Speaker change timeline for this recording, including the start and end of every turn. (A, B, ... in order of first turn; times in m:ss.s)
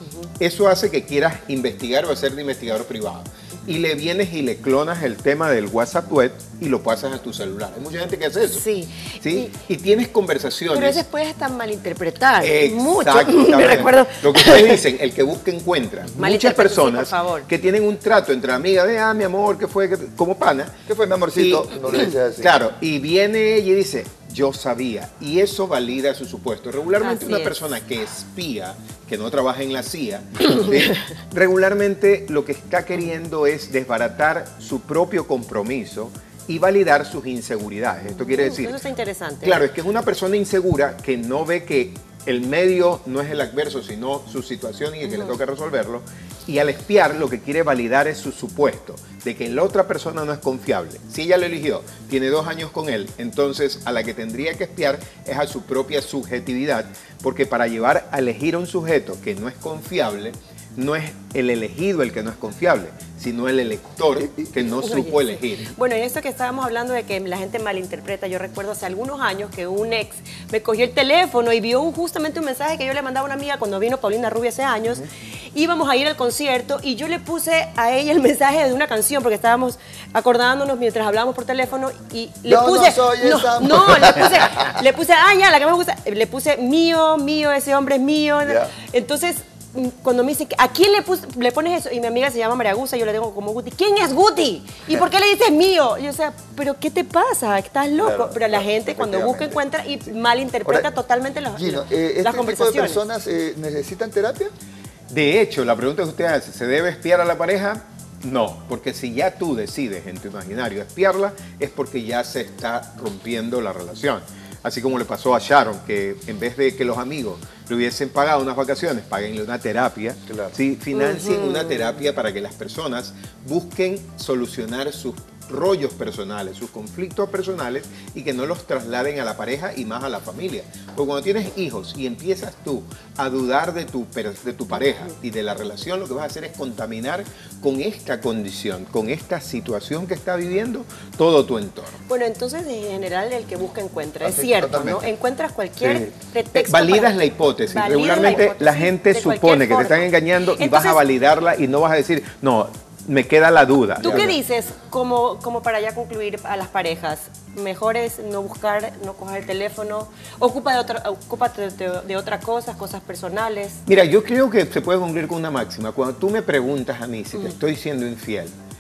0:00.4-0:08.6 A
0:08.4-0:09.5 B
0:09.2-0:11.0 A
0:10.7-0:14.8 B
0:12.4-0:20.8 A
0:16.2-0:17.5 B
0:20.9-0:22.5 C
0:21.3-0:38.8 A
0:27.0-0:27.6 B
0:38.1-0:39.7 B
0:39.4-1:05.7 A
0:45.1-0:45.4 B
1:04.6-1:43.1 B
1:22.5-1:24.8 C
1:28.4-1:28.7 C
1:38.0-1:39.6 C
1:41.5-1:44.5 C
1:45.1-2:22.0 A
2:00.9-2:02.0 B
2:22.1-2:31.0 B
2:24.2-2:25.1 C
2:25.8-2:34.4 A
2:34.0-2:43.8 B
2:43.9-2:48.5 A